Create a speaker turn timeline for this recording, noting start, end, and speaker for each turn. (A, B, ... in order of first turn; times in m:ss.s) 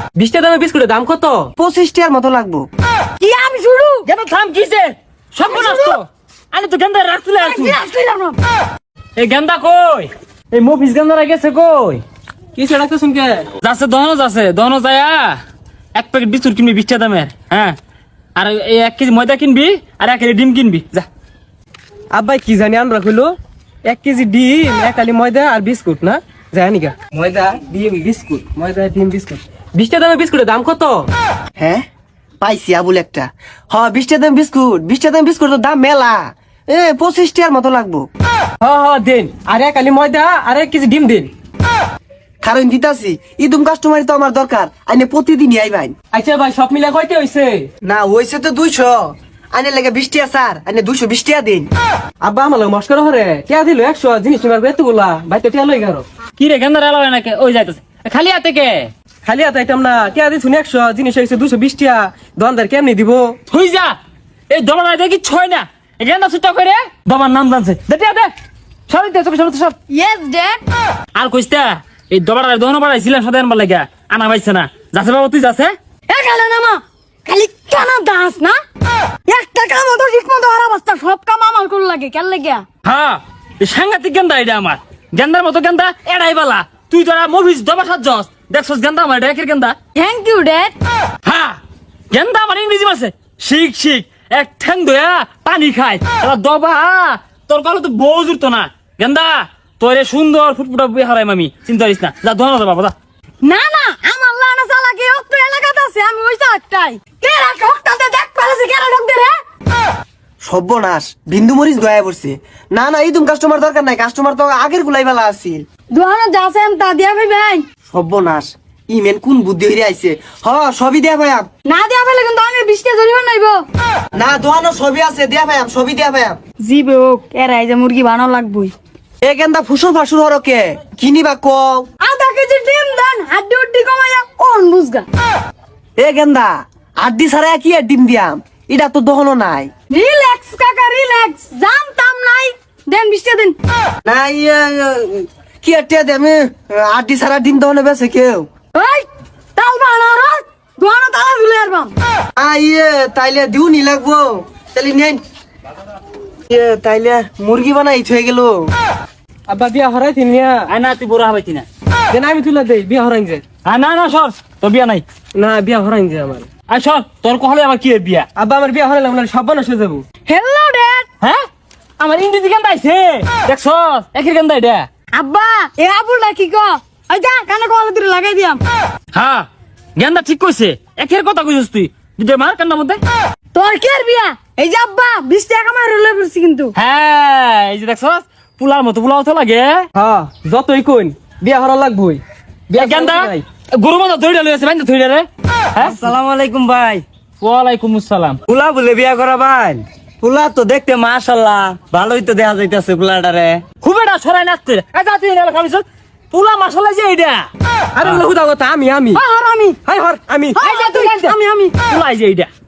0:00.1-0:01.5 A
0:01.6-0:02.7 B
0:03.2-0:04.1 C
0:04.0-0:07.8 D
0:05.5-0:06.0 C
0:07.4-0:08.4 C
0:09.2-0:12.0 D
0:12.6-0:13.5 A
0:13.6-0:15.4 D
0:16.0-0:17.8 D
0:18.4-0:21.0 D
0:22.1-0:23.3 A
0:23.8-0:31.1 A
0:31.6-0:31.8 B
0:32.4-0:38.1 B
0:38.6-0:41.3 A
0:42.4-0:45.9 B
0:46.1-0:47.7 A
0:47.8-0:51.7 B
0:52.2-0:56.0 A
0:56.4-0:58.9 D
0:59.2-1:03.3 A
1:03.5-1:03.9 D
1:04.5-1:08.3 D
1:08.9-1:09.7 D
1:09.9-1:10.6 C
1:11.1-1:15.7 D
1:16.1-1:18.6 C
1:19.2-1:22.6 C
1:22.8-1:29.8 D
1:29.9-1:30.7 C
1:31.2-1:31.6 D
1:32.1-1:42.9 D
1:43.4-1:49.3 C
1:50.4-1:55.6 B
1:55.9-1:57.6 C
1:57.9-2:01.5 B
2:01.6-2:03.6 C
2:04.2-2:06.4 B
2:06.6-2:08.7 C
2:09.2-2:11.9 B
2:12.0-2:15.0 C
2:16.0-2:19.7 B
2:19.9-2:23.6 C
2:24.0-2:28.5 B
2:28.7-2:31.9 C
2:32.4-2:35.2 B
2:36.5-2:38.7 B
2:39.5-2:40.7 A
2:40.7-2:41.6 D
2:42.1-2:43.4 A
2:43.6-2:45.0 D
2:45.3-2:46.5 A
2:46.7-2:48.3 D
2:48.4-2:50.0 A
2:50.2-2:51.1 C
2:52.0-2:54.9 D
2:55.1-2:58.6 C
2:59.1-3:03.0 D
3:03.5-3:06.7 C
3:06.8-3:09.8 D
3:09.9-3:12.2 A
3:12.7-3:16.0 D
3:12.7-3:13.4 A
3:15.9-3:17.0 E
3:17.4-3:18.4 D
3:18.5-3:23.6 E
3:23.8-3:27.5 D
3:28.0-3:29.2 A
3:29.1-3:29.8 C
3:29.8-3:31.4 A
3:30.6-3:31.8 C
3:31.8-3:32.5 D